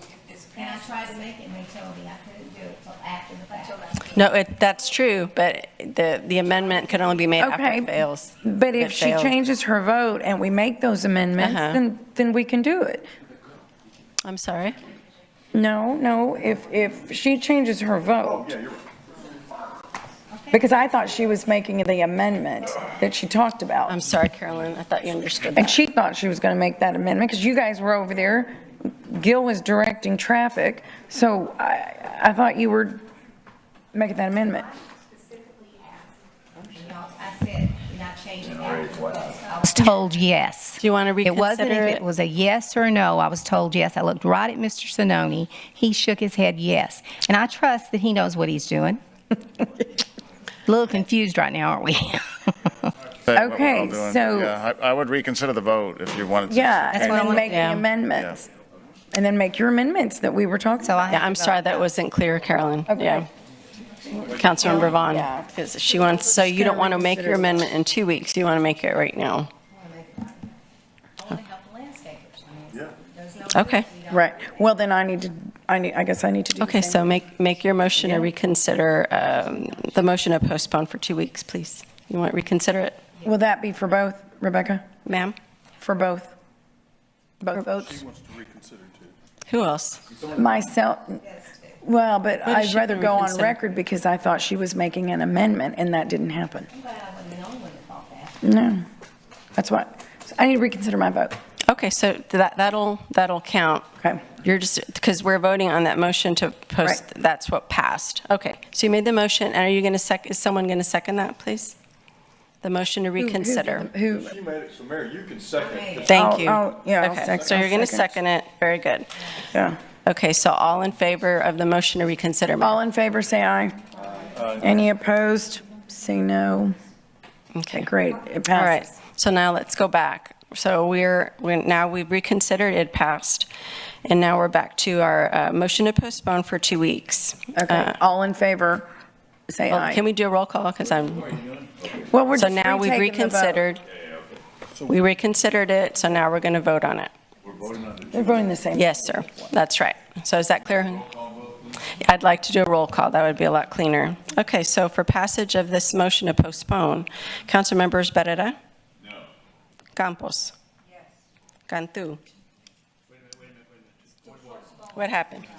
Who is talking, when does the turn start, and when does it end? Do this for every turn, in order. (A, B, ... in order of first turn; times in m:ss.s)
0:00.5-0:03.8 A
0:04.1-0:09.3 B
0:07.4-0:13.1 C
0:11.4-0:11.8 B
0:14.2-0:14.8 B
0:15.5-0:18.5 C
0:18.2-0:18.8 D
0:20.5-0:24.0 C
0:23.9-0:25.8 B
0:25.6-0:33.0 C
0:33.9-0:34.7 C
0:36.7-0:49.0 A
0:38.4-0:39.4 D
0:40.8-0:42.0 B
0:50.7-0:52.9 A
0:53.2-0:57.2 E
0:53.3-0:54.5 C
0:56.4-0:58.4 C
0:56.9-0:57.8 A
0:57.3-0:57.8 B
0:59.1-1:01.7 C
1:00.8-1:01.2 A
1:01.1-1:03.3 B
1:02.9-1:03.2 C
1:04.1-1:09.5 B
1:04.3-1:04.6 D
1:04.6-1:05.5 C
1:06.4-1:07.7 C
1:09.7-1:10.5 A
1:11.2-1:14.6 A
1:13.5-1:13.9 B
1:14.1-1:17.1 C
1:16.6-1:23.0 B
1:18.0-1:18.3 C
1:23.2-1:24.8 C
1:25.0-1:25.4 B
1:25.8-1:26.3 C
1:27.4-1:28.0 C
1:27.8-1:29.2 D
1:29.5-1:30.0 B
1:30.1-1:30.6 D
1:30.3-1:31.2 C
1:31.8-1:36.7 C
1:32.4-1:33.6 B
1:36.7-1:38.4 A
1:38.4-1:38.8 C
1:39.6-1:41.4 C
1:41.7-1:43.8 B
1:44.4-1:51.8 B
1:52.6-1:53.9 B
1:53.2-1:54.3 C
1:54.0-1:56.5 D
1:56.0-1:58.1 C
1:56.1-1:59.5 B
1:59.5-1:59.8 C
2:00.0-2:02.8 B
2:02.6-2:03.8 C
2:04.0-2:04.7 D
2:04.4-2:06.8 C
2:07.5-2:07.9 B
2:07.7-2:08.8 C
2:08.5-2:13.5 B
2:14.0-2:18.0 B
2:17.5-2:18.9 C
2:19.5-2:20.0 C
2:19.7-2:21.4 B
2:21.3-2:21.7 D
2:22.0-2:23.6 C
2:22.3-2:23.8 B
2:24.8-2:27.1 B
2:27.4-2:28.4 D
2:28.1-2:29.5 C
2:28.7-2:31.1 B
2:30.9-2:31.7 D
2:31.9-2:38.6 B
2:39.9-2:40.5 B
2:41.7-2:42.2 B
2:44.9-2:45.5 B